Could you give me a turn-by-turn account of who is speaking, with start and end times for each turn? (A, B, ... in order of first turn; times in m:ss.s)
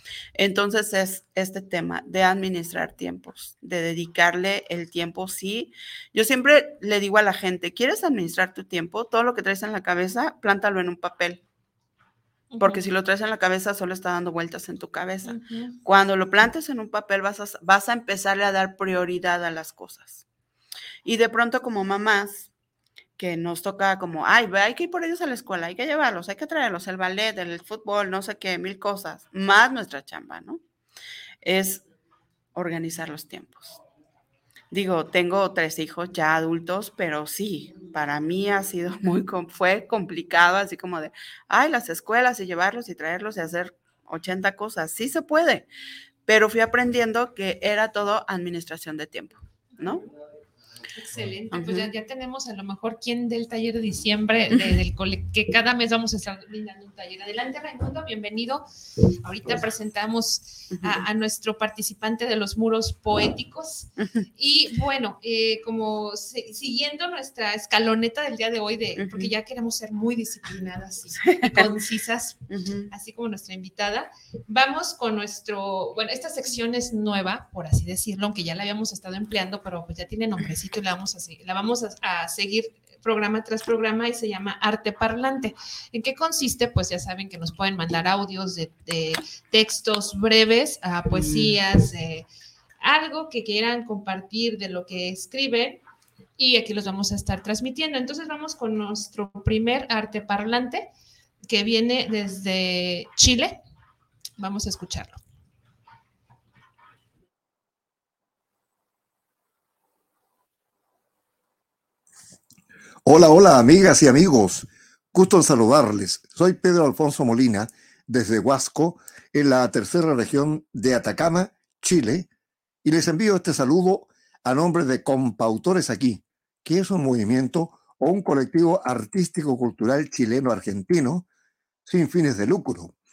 0:00.4-0:11.4 A
0:12.5-0:12.8 B
0:12.6-0:20.2 A
0:15.3-0:15.8 B
0:21.0-0:22.5 A
0:23.2-0:30.6 A
0:31.4-0:31.9 A
0:32.6-0:33.8 A
0:34.7-0:45.7 A
0:46.3-0:50.0 A
0:51.0-0:58.7 B
0:51.5-0:51.9 A
0:59.2-1:32.3 B
1:00.8-1:01.0 A
1:09.0-1:09.3 A
1:11.3-1:11.7 A
1:12.5-1:12.9 A
1:31.1-1:31.6 A
1:32.8-1:35.8 B
1:36.4-1:40.9 B
1:41.5-1:43.6 B
1:44.4-1:45.2 B
1:53.0-2:02.3 C
2:02.8-2:11.3 C
2:11.9-2:12.9 C